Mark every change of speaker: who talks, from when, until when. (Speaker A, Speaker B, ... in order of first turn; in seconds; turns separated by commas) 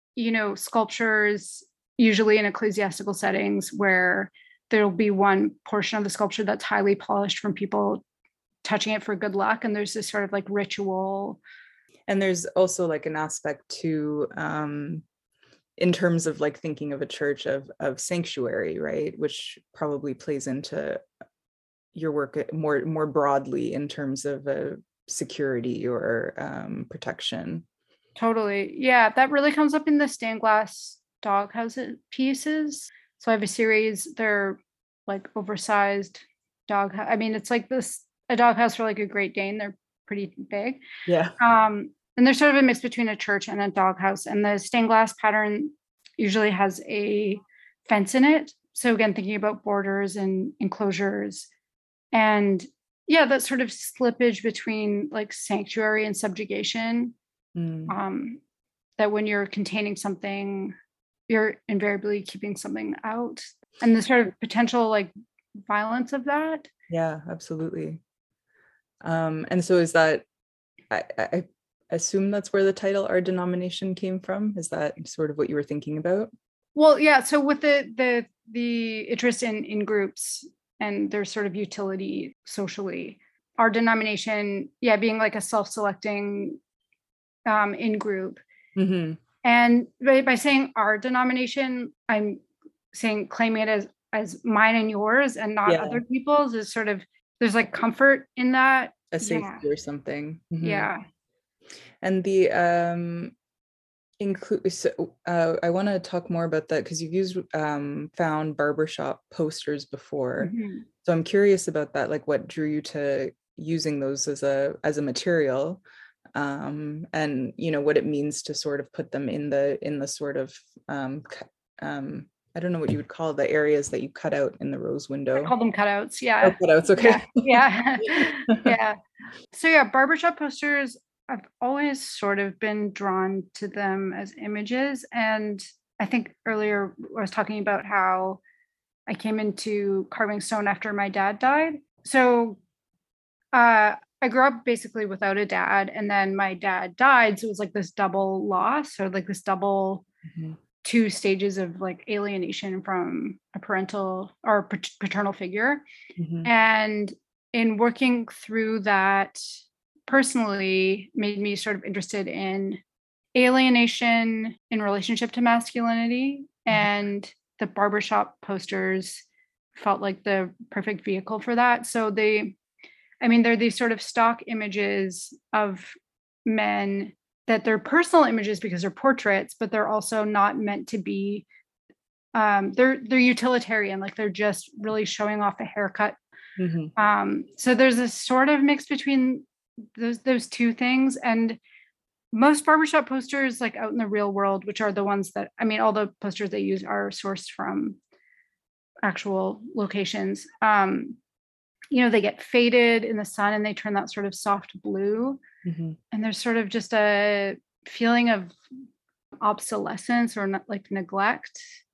Speaker A: 0.1-8.0, Speaker A: 8.6-11.4, Speaker B: 12.1-15.0, Speaker B: 15.8-21.0, Speaker B: 21.9-27.6, Speaker A: 28.2-40.8, Speaker B: 41.1-41.3, Speaker A: 41.4-51.5, Speaker A: 52.1-57.1, Speaker B: 57.5-57.9, Speaker A: 57.9-58.4, Speaker A: 59.0-60.7, Speaker A: 61.3-65.1, Speaker A: 65.7-66.7, Speaker B: 66.9-68.0, Speaker B: 69.0-70.2, Speaker B: 70.9-76.3, Speaker A: 76.7-86.6, Speaker A: 87.5-88.4, Speaker B: 88.8-89.2, Speaker A: 89.4-92.4, Speaker A: 92.9-99.6, Speaker B: 95.7-96.0, Speaker B: 99.1-100.9, Speaker A: 100.6-101.0, Speaker B: 102.0-103.3, Speaker B: 104.2-115.8, Speaker A: 110.4-110.8, Speaker B: 116.3-125.5, Speaker A: 125.4-129.0, Speaker B: 126.4-128.7, Speaker A: 129.5-138.4, Speaker A: 139.1-142.6, Speaker A: 143.5-150.1, Speaker B: 150.3-150.6, Speaker A: 150.8-155.8, Speaker B: 156.2-156.5, Speaker A: 156.4-159.4, Speaker A: 160.1-162.8, Speaker A: 163.3-172.6, Speaker A: 173.2-175.9, Speaker A: 176.4-181.4, Speaker A: 182.3-186.2, Speaker B: 186.6-186.9, Speaker A: 186.9-191.6, Speaker A: 192.3-198.0, Speaker A: 199.0-201.2, Speaker A: 201.9-205.4, Speaker B: 205.6-206.0, Speaker A: 206.1-208.6, Speaker A: 209.4-211.7